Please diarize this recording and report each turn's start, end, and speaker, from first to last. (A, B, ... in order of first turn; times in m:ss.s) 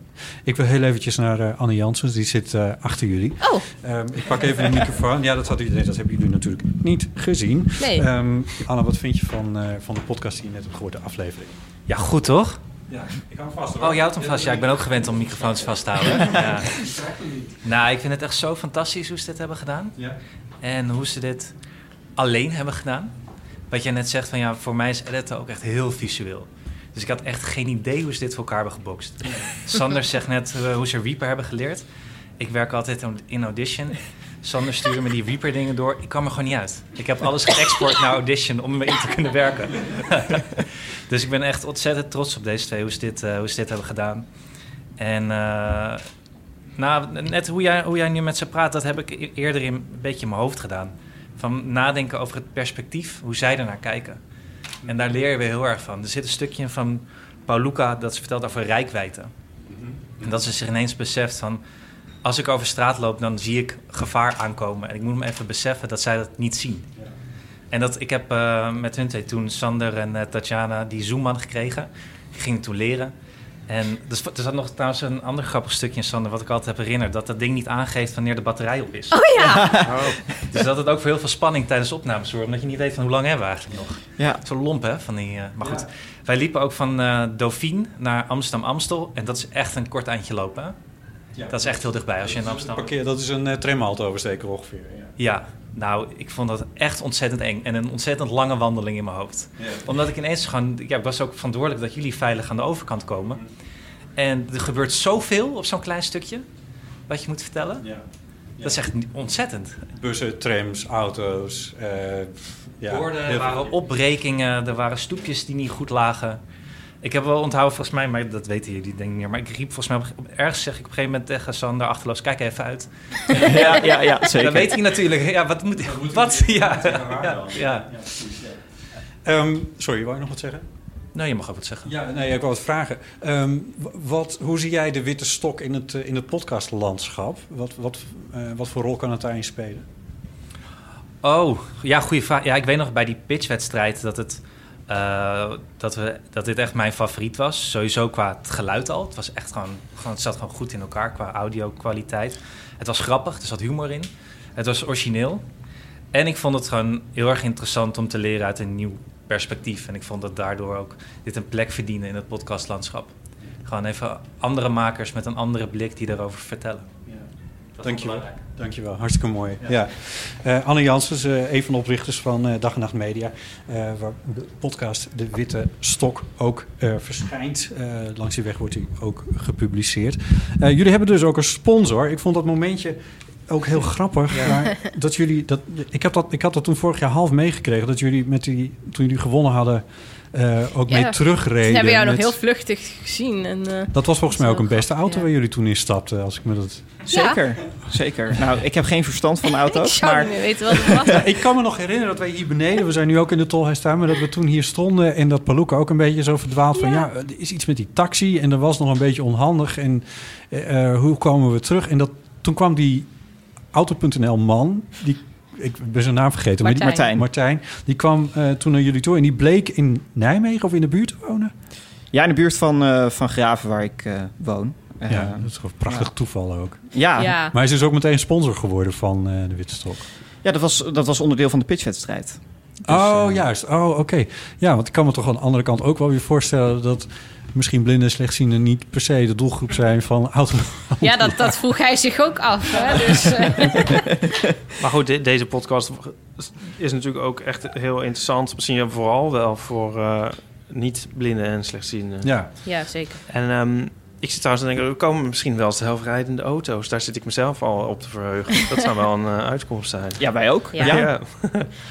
0:00.4-0:11.5 A
0:07.8-0:08.0 B
0:11.9-0:12.6 C
0:12.9-0:17.6 A
0:13.8-0:16.8 C
0:17.6-0:20.0 C
0:20.6-0:21.5 C
0:22.2-0:23.1 C
0:23.7-0:31.8 C
0:32.4-0:44.2 C
0:45.0-0:46.0 C
0:46.8-0:54.2 C
0:54.8-0:59.3 C
0:59.7-1:00.0 A
1:00.2-1:01.6 C
1:02.2-1:06.9 C
1:07.7-1:13.1 C
1:13.7-1:19.2 C
1:19.1-1:19.8 B
1:19.4-1:19.9 D
1:19.8-1:20.2 E
1:20.5-1:30.8 C
1:25.6-1:25.8 A
1:31.3-1:35.1 A
1:31.5-1:32.9 C
1:35.2-1:43.4 C
1:44.2-1:46.4 C
1:47.1-1:47.9 C
1:48.6-1:49.9 C
1:49.9-1:53.7 A
1:52.8-1:56.4 C
1:57.0-2:07.9 C
2:03.3-2:04.8 D
2:05.8-2:08.6 A
2:09.2-2:10.7 A
2:11.1-2:11.9 C
2:11.8-2:19.8 A
2:21.2-2:35.4 C
2:36.1-2:43.1 C
2:43.6-2:46.9 C
2:47.8-2:48.4 C
2:47.8-3:12.4 A
3:10.9-3:15.2 B
3:13.9-3:17.0 A
3:17.0-3:21.2 D
3:17.1-3:17.4 B
3:19.5-3:21.2 B
3:21.0-3:33.1 A
3:26.7-3:27.1 B
3:33.7-3:41.5 A
3:36.6-3:37.1 B
3:36.8-3:37.2 D
3:42.1-3:46.1 D
3:45.1-3:46.8 A
3:46.9-3:47.4 D
3:47.2-3:47.5 B
3:47.3-3:50.0 A
3:50.4-3:53.4 D
3:52.8-4:01.5 A
4:01.0-4:04.0 B
4:04.8-4:12.5 E
4:12.2-4:12.5 A
4:12.6-4:13.2 B
4:13.3-4:21.7 E
4:20.2-4:21.1 D
4:20.7-4:21.0 B